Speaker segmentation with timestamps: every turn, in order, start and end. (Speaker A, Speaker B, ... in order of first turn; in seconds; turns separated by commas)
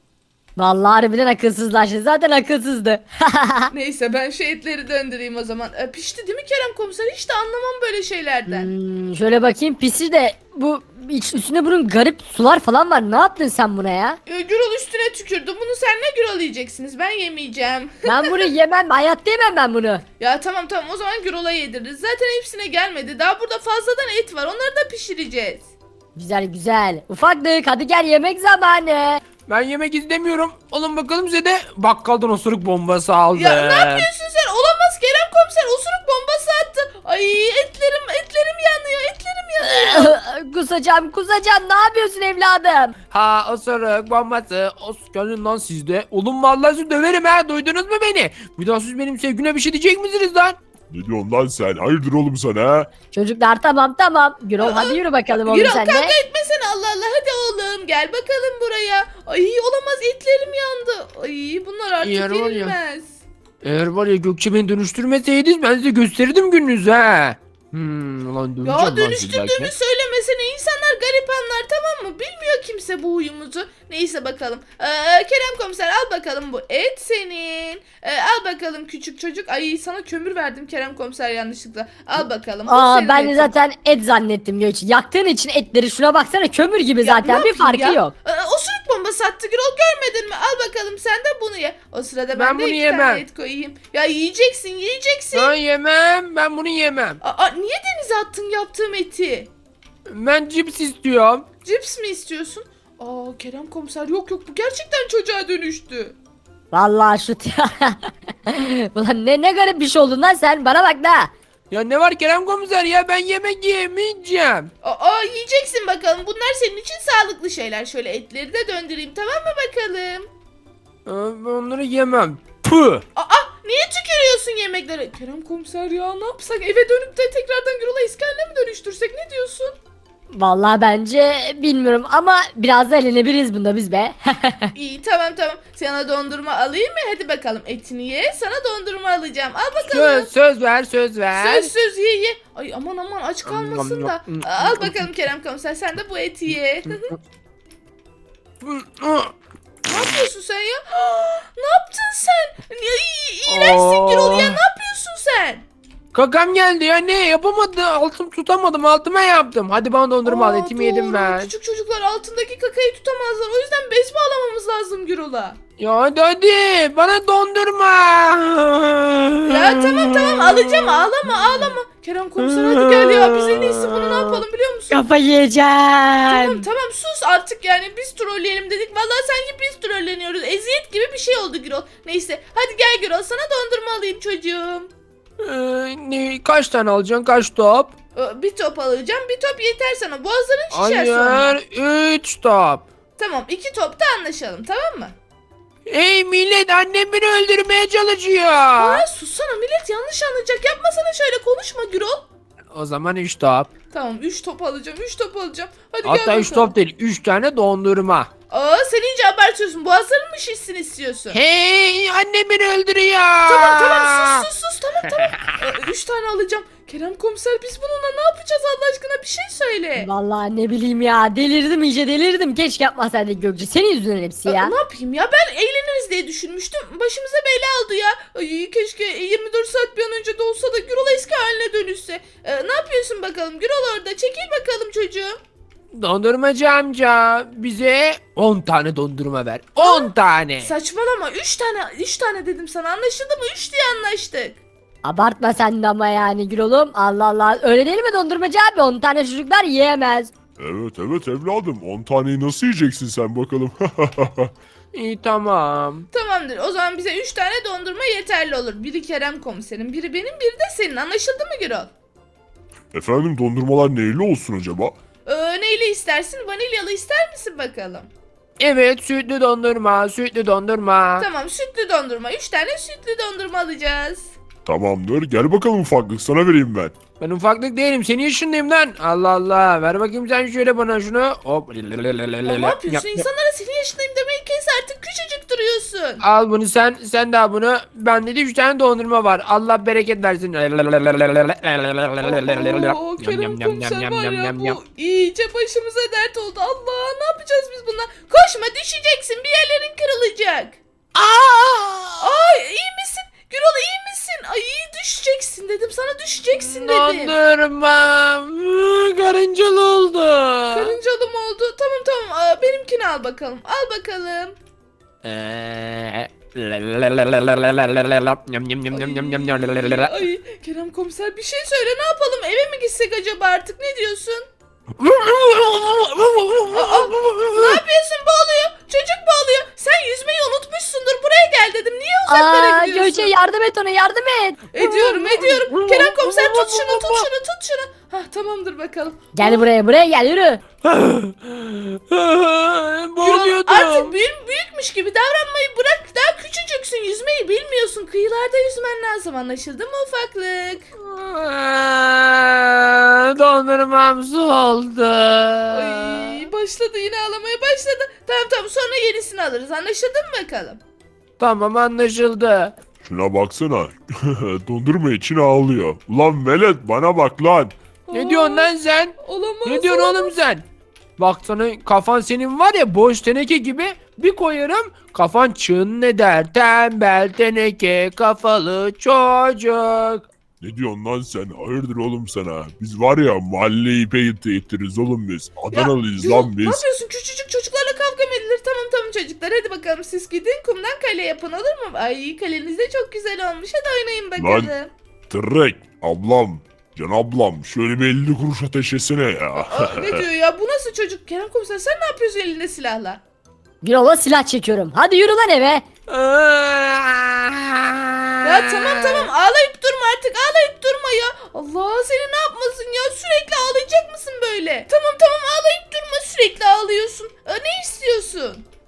Speaker A: 0.6-3.7, Speaker B: 3.7-8.7, Speaker A: 8.5-14.2, Speaker B: 14.3-18.5, Speaker A: 18.1-20.0, Speaker B: 20.2-25.7, Speaker A: 26.1-29.2, Speaker C: 29.5-34.1, Speaker B: 33.4-40.2, Speaker A: 39.6-43.0, Speaker C: 43.1-50.6, Speaker D: 50.9-52.9, Speaker A: 53.1-56.1, Speaker B: 54.6-63.2, Speaker C: 62.0-62.8, Speaker C: 63.6-69.7, Speaker B: 68.6-83.5, Speaker A: 82.7-88.1, Speaker B: 87.0-95.5, Speaker C: 92.3-93.2, Speaker C: 95.3-97.2, Speaker B: 97.2-99.5, Speaker C: 100.1-101.5, Speaker B: 101.6-106.2, Speaker A: 106.7-111.3, Speaker C: 111.7-114.7, Speaker B: 114.8-120.3, Speaker C: 121.1-123.0, Speaker B: 123.2-129.8, Speaker A: 130.3-134.7, Speaker B: 134.8-140.3, Speaker C: 139.9-141.7, Speaker B: 141.3-147.1, Speaker C: 143.5-145.1, Speaker C: 148.6-149.3, Speaker B: 149.9-155.6, Speaker C: 153.5-154.6, Speaker C: 156.1-161.5, Speaker B: 160.2-165.6, Speaker C: 165.8-171.7, Speaker B: 169.5-175.0, Speaker C: 172.4-174.4, Speaker A: 174.9-176.7, Speaker B: 176.3-184.9, Speaker C: 185.4-187.9, Speaker B: 188.2-191.6, Speaker C: 190.7-192.8, Speaker B: 193.2-195.2, Speaker C: 195.9-199.1, Speaker B: 198.8-202.3, Speaker C: 202.7-203.7, Speaker B: 203.9-206.8, Speaker C: 206.0-208.3, Speaker B: 208.5-211.4, Speaker C: 211.3-214.4, Speaker B: 213.5-220.1, Speaker A: 220.0-224.8, Speaker B: 224.5-235.4, Speaker C: 235.9-240.7, Speaker B: 239.8-244.6, Speaker A: 245.0-250.3, Speaker D: 250.6-254.5, Speaker C: 254.9-256.1, Speaker B: 256.1-261.9, Speaker D: 262.9-264.9, Speaker B: 265.3-268.1, Speaker C: 268.6-271.3, Speaker B: 271.2-274.3, Speaker D: 274.6-276.9, Speaker C: 277.2-283.3, Speaker B: 282.4-286.2, Speaker C: 286.2-294.8, Speaker B: 292.2-300.8, Speaker C: 301.1-302.5, Speaker B: 302.2-307.4, Speaker C: 306.5-311.0, Speaker B: 310.7-314.6, Speaker C: 315.2-320.1, Speaker B: 318.9-324.5, Speaker C: 325.0-327.8, Speaker B: 326.7-333.3, Speaker A: 332.3-334.7, Speaker B: 334.7-339.7, Speaker C: 334.8-337.3, Speaker A: 339.4-340.6, Speaker C: 340.8-344.2, Speaker B: 343.2-350.9, Speaker C: 351.0-356.5, Speaker B: 355.7-360.8, Speaker C: 361.4-362.8, Speaker D: 363.0-367.8, Speaker B: 368.1-370.4, Speaker C: 368.1-370.6, Speaker C: 371.2-380.3, Speaker D: 380.6-386.8, Speaker B: 385.7-394.9, Speaker D: 394.4-394.7, Speaker D: 395.3-400.3, Speaker B: 399.6-403.2, Speaker A: 403.8-405.9, Speaker C: 406.1-409.3, Speaker B: 408.4-418.7